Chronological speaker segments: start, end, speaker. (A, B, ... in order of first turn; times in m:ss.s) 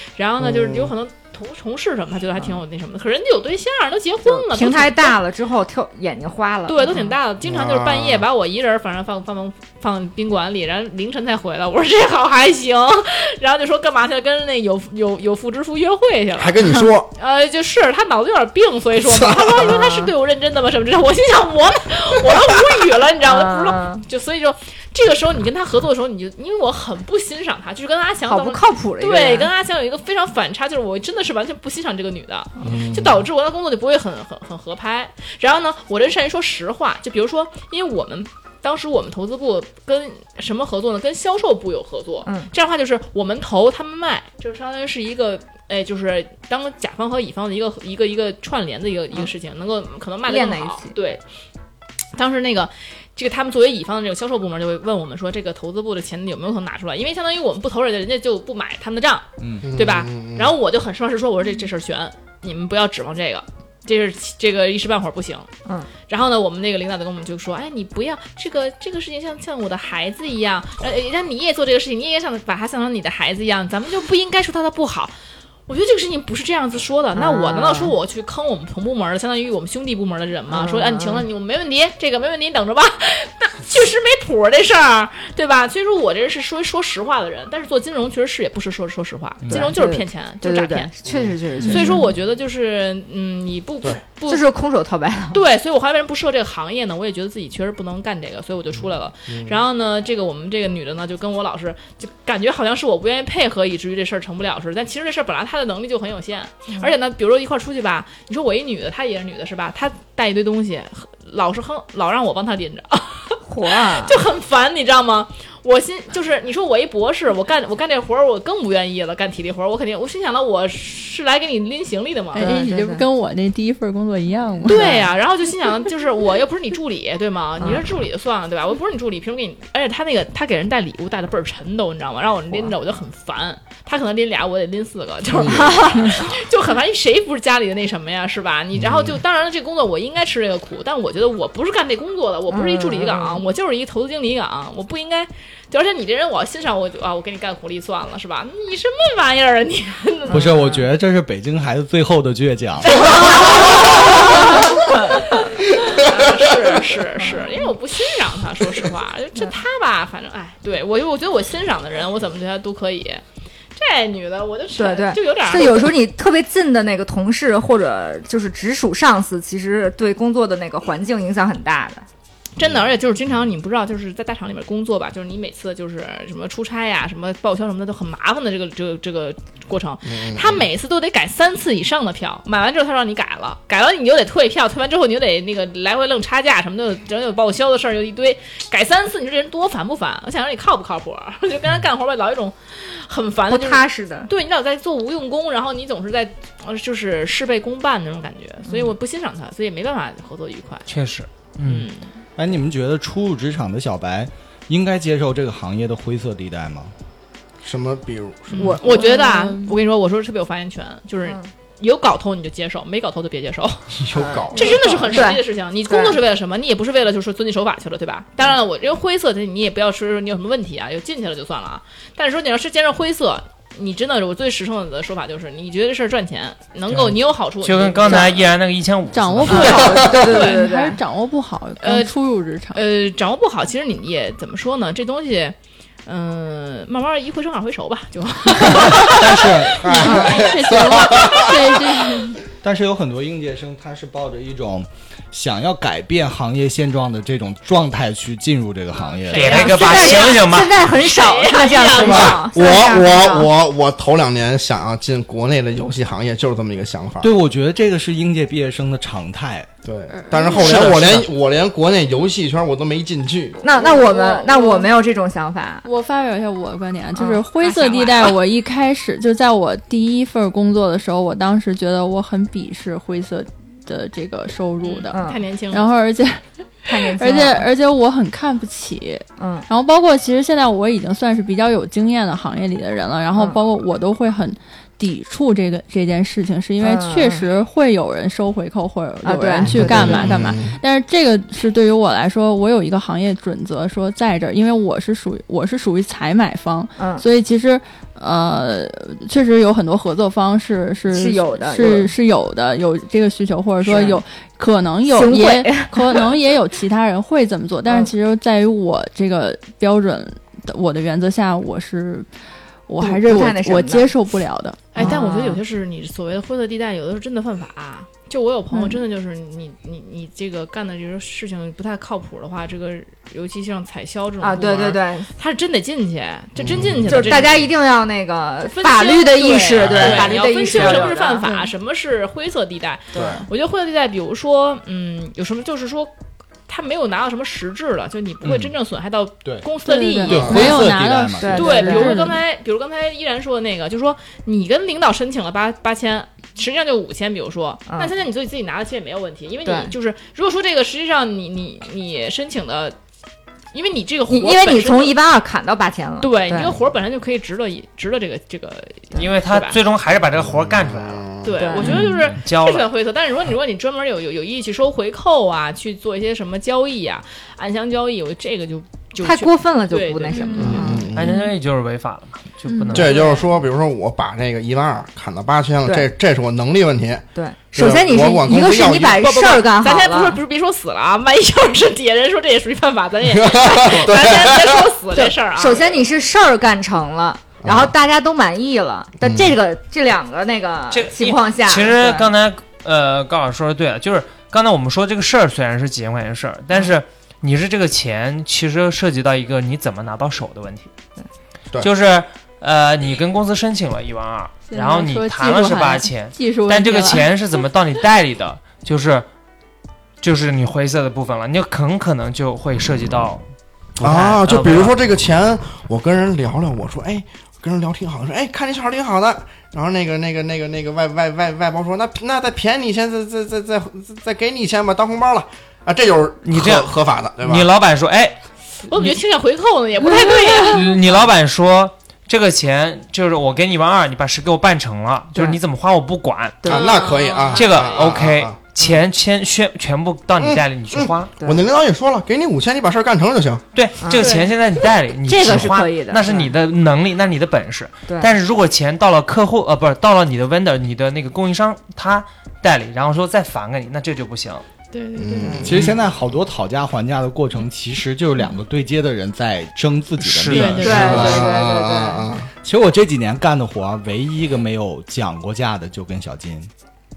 0:00.2-0:05.2 A
0:00.4-0:00.9 B
0:04.3-0:07.1 C
0:06.7-0:16.6 A
0:07.4-0:08.3 B
0:16.4-0:17.1 B
0:17.1-0:51.2 A
0:19.1-0:19.8 B
0:19.6-0:20.1 C
0:23.2-0:24.0 C
0:28.3-0:29.5 C
0:32.6-0:33.2 B
0:50.3-0:51.0 C
0:52.1-1:05.5 A
0:59.4-0:59.7 D
0:59.6-1:00.5 B
1:06.1-1:15.1 A
1:15.7-1:30.9 A
1:17.2-1:18.0 C
1:20.5-1:21.3 C
1:29.4-1:29.7 D
1:29.5-1:32.1 C
1:31.1-1:31.4 B
1:31.6-1:34.5 A
1:31.7-1:32.0 E
1:34.3-1:35.4 C
1:35.3-2:02.6 A
1:39.3-1:39.6 B
1:53.5-1:54.2 C
2:02.3-2:04.9 E
2:02.4-2:03.0 C
2:04.7-2:05.1 C
2:04.7-2:30.6 A
2:07.6-2:07.9 C
2:15.5-2:16.2 C
2:18.8-2:19.2 B
2:22.5-2:23.4 C
2:30.3-2:30.9 C
2:30.3-2:33.8 D
2:32.9-2:43.2 A
2:33.4-2:34.5 C
2:37.2-2:37.7 C
2:43.8-2:46.0 A
2:44.8-2:52.1 C
2:52.6-3:20.9 A
3:00.1-3:00.6 B
3:13.5-3:14.3 C
3:18.7-3:18.9 C
3:20.9-3:21.9 F
3:21.6-3:22.1 A
3:22.4-3:26.9 D
3:27.6-3:28.8 B
3:28.5-3:34.0 A
3:28.6-3:29.1 C
3:28.8-3:29.8 E
3:34.0-3:35.2 B
3:34.1-3:36.2 C
3:34.5-3:48.4 A
3:46.9-3:49.8 F
3:49.1-3:52.8 E
3:49.5-3:51.0 C
3:49.5-3:50.7 A
3:51.8-3:52.1 A
3:52.7-4:00.5 A
3:59.0-3:59.9 D
3:59.8-4:01.8 B
3:59.9-4:02.4 E
4:00.1-4:00.4 C
4:02.6-4:09.8 D
4:08.9-4:10.4 A
4:09.3-4:10.8 F
4:09.5-4:13.5 C
4:11.0-4:12.6 A
4:12.0-4:17.3 B
4:17.2-4:19.7 D
4:19.8-4:23.6 B
4:20.1-4:20.9 E
4:20.5-4:21.3 F
4:20.8-4:21.2 D
4:23.6-4:25.9 C
4:23.7-4:25.0 E
4:25.8-5:12.3 E
4:27.2-4:27.4 C
4:27.6-4:28.4 A
4:34.8-4:35.9 A
4:35.1-4:35.4 C
4:36.9-4:37.7 C
4:39.4-4:39.7 C
4:46.8-4:47.5 C
4:49.2-4:50.4 C
4:49.7-4:50.8 B
4:57.0-4:57.2 C
5:01.1-5:02.1 C
5:03.8-5:04.2 C
5:05.1-5:06.3 C
5:07.9-5:08.1 C
5:12.9-5:15.1 E
5:13.0-5:14.1 C
5:14.9-5:27.7 A
5:15.0-5:15.6 C
5:24.4-5:25.3 C
5:26.6-5:27.4 B
5:27.1-5:31.5 C
5:28.6-5:36.1 A
5:29.8-5:30.3 D
5:31.4-5:31.7 E
5:33.1-5:33.4 C
5:33.2-5:33.4 B
5:36.7-5:40.8 A
5:38.4-5:38.8 D
5:39.8-5:42.4 E
5:40.3-5:41.7 D
5:40.4-5:40.6 B
5:41.4-5:42.3 C
5:41.5-5:53.0 A
5:47.9-5:48.1 C
5:49.6-5:49.9 C
5:53.7-5:55.2 A
5:54.3-5:56.8 C
5:56.2-5:59.8 A
5:59.2-6:02.9 F
6:00.4-6:01.6 B
6:01.4-6:11.0 A
6:01.6-6:02.1 C
6:09.2-6:11.1 C
6:10.6-6:11.4 B
6:11.1-6:13.4 F
6:12.7-6:13.2 E
6:12.9-6:19.3 B
6:13.2-6:13.4 A
6:17.4-6:20.4 C
6:18.9-6:26.0 A
6:23.3-6:24.8 B
6:25.1-6:32.3 C
6:27.6-6:27.9 B
6:29.2-6:29.5 B
6:30.9-6:40.9 F
6:41.8-6:49.3 F
6:44.7-6:47.4 E
6:50.2-6:53.4 F
6:54.0-6:55.0 F
6:54.0-7:07.7 B
7:06.4-7:09.2 F
7:08.9-7:11.0 A
7:10.7-7:16.7 F
7:15.3-7:15.6 C
7:16.6-7:17.0 C
7:16.6-7:18.6 B
7:16.7-7:18.0 A
7:17.5-7:21.3 F
7:20.4-7:23.6 B
7:21.4-7:21.7 C
7:23.7-7:34.6 F
7:24.0-7:24.3 C
7:24.1-7:24.5 A
7:25.3-7:26.5 C
7:34.9-7:35.7 A
7:35.2-7:36.0 B
7:35.4-7:35.8 C
7:35.6-7:41.5 D
7:40.2-7:41.0 F
7:40.5-7:41.4 A
7:40.8-7:42.2 C
7:40.9-7:42.5 B
7:42.6-7:46.7 D